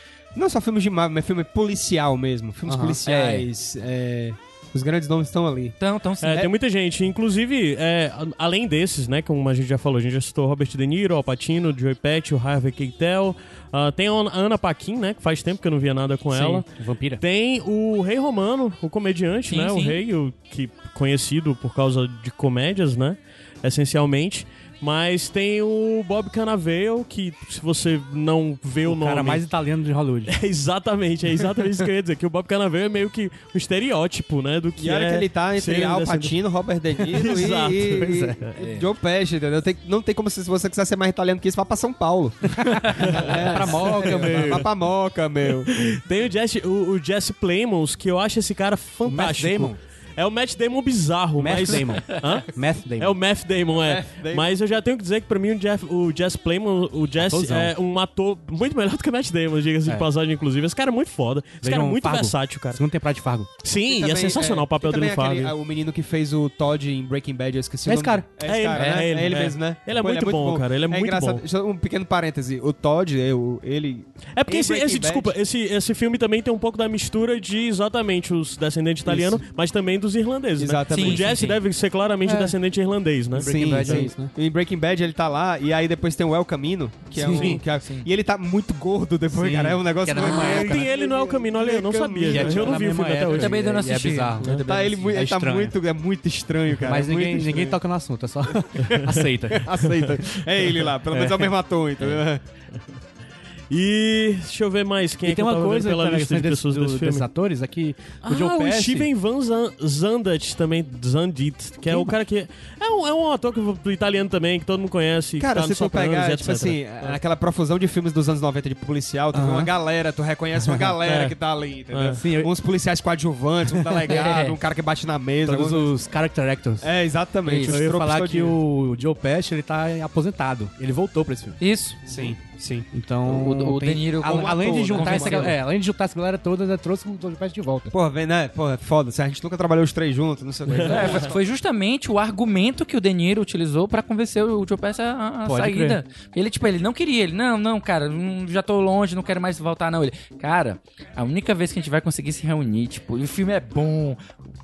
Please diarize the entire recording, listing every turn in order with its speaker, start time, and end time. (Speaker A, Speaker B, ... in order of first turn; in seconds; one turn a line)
Speaker A: 0.3-5.8
Speaker B: 2.7-3.0
Speaker C: 3.0-3.5
Speaker C: 5.8-6.5
Speaker D: 6.2-16.7
Speaker B: 16.3-17.2
Speaker D: 17.2-29.4
Speaker C: 19.5-20.0
Speaker B: 28.9-30.4
Speaker D: 30.3-36.4
Speaker A: 34.8-45.7
Speaker D: 37.0-38.5
Speaker B: 37.5-38.8
Speaker B: 42.6-44.7
Speaker D: 43.0-44.7
Speaker D: 45.5-62.8
Speaker B: 49.1-49.8
Speaker B: 51.4-53.1
Speaker A: 53.8-54.6
Speaker B: 57.2-57.7
Speaker B: 61.6-63.5
Speaker D: 63.6-65.5
Speaker A: 63.9-75.3
Speaker B: 67.9-68.2
Speaker D: 68.4-71.5
Speaker C: 68.8-69.1
Speaker D: 74.4-84.1
Speaker A: 79.1-79.4
Speaker A: 80.6-81.4
Speaker C: 80.9-81.6
Speaker B: 82.2-82.6
Speaker B: 83.3-84.3
Speaker A: 83.4-92.9
Speaker B: 87.2-87.6
Speaker C: 87.3-88.1
Speaker B: 89.3-90.9
Speaker D: 90.2-93.6
Speaker B: 92.3-95.7
Speaker C: 93.3-95.1
Speaker A: 94.5-97.8
Speaker B: 96.8-100.3
Speaker D: 98.8-99.2
Speaker A: 99.6-102.4
Speaker D: 103.7-107.3
Speaker B: 105.2-109.1
Speaker D: 108.2-117.1
Speaker B: 111.9-112.1
Speaker A: 115.4-125.9
Speaker B: 119.3-119.7
Speaker B: 120.6-120.9
Speaker D: 121.0-121.3
Speaker D: 121.9-122.2
Speaker B: 122.1-122.5
Speaker B: 123.8-124.3
Speaker C: 124.1-124.6
Speaker B: 125.5-126.9
Speaker A: 126.8-128.6
Speaker C: 127.5-127.8
Speaker B: 127.6-131.6
Speaker C: 131.6-132.0
Speaker A: 132.1-132.9
Speaker B: 132.9-137.9
Speaker C: 133.3-135.6
Speaker A: 134.2-135.6
Speaker A: 137.9-141.4
Speaker B: 140.7-141.0
Speaker C: 140.8-154.2
Speaker B: 145.5-146.0